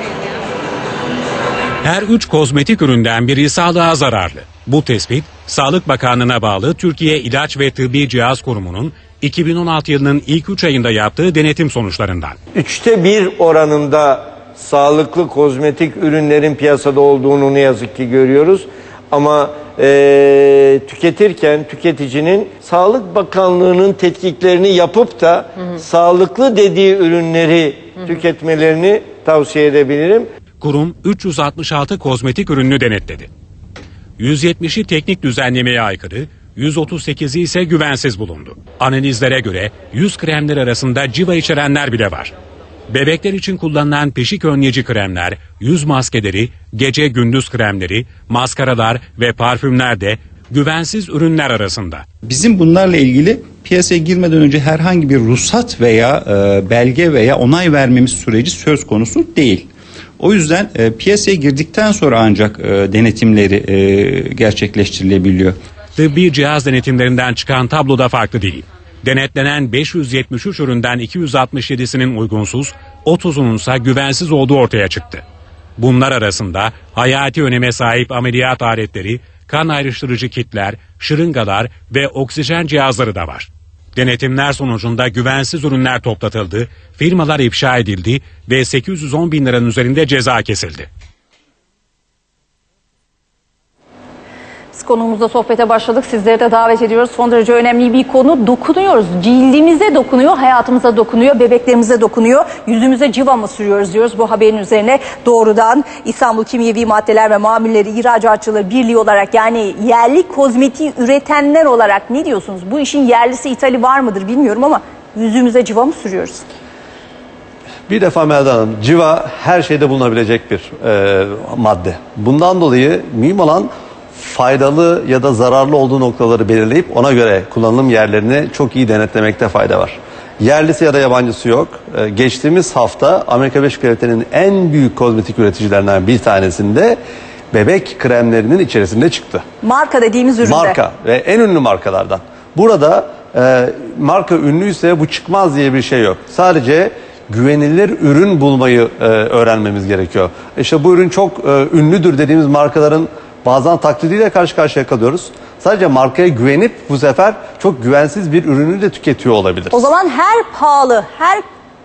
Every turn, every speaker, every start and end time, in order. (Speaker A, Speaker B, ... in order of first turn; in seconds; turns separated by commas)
Speaker A: 1.8-12.3, Speaker B: 12.6-30.3, Speaker A: 30.6-33.3, Speaker A: 34.2-42.3, Speaker A: 42.9-52.0, Speaker C: 52.3-65.6, Speaker A: 66.0-75.2, Speaker A: 75.8-90.9, Speaker D: 94.7-116.5, Speaker E: 117.9-137.0, Speaker E: 137.5-139.4, Speaker D: 139.6-140.8, Speaker E: 140.4-159.9, Speaker D: 159.7-161.4